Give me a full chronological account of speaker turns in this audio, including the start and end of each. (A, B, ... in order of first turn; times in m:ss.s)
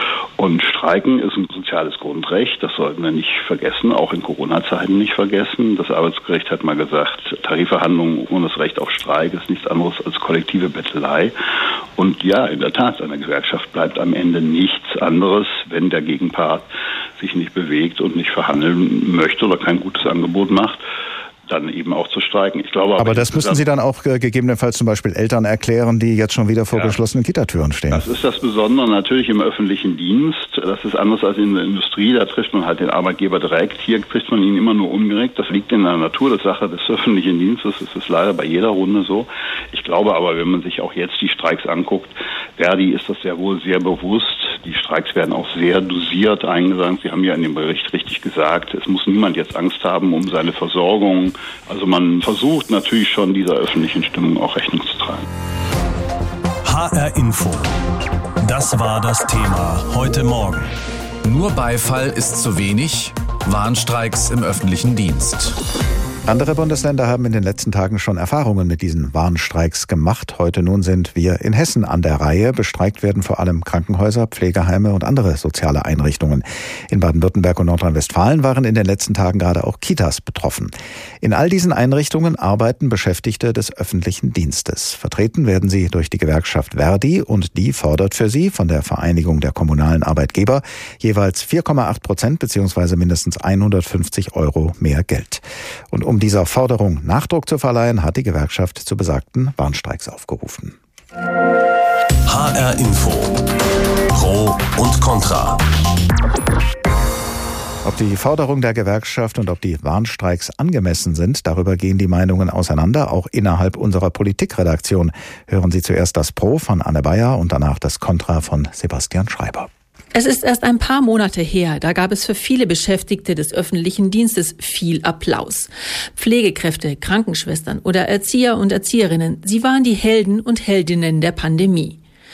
0:00.4-0:11.3 A
0:12.0-0:16.7 A
0:17.2-0:20.8 A
0:21.5-0:23.6 A
0:23.0-0:28.0 B
0:27.9-0:55.2 A
0:56.6-0:57.7 C
0:58.4-1:00.7 C
1:01.2-1:05.6 D
1:06.2-1:40.7 B
1:42.2-1:43.4 C
1:44.1-1:45.6 C
1:47.8-1:59.7 B
2:00.1-2:12.0 E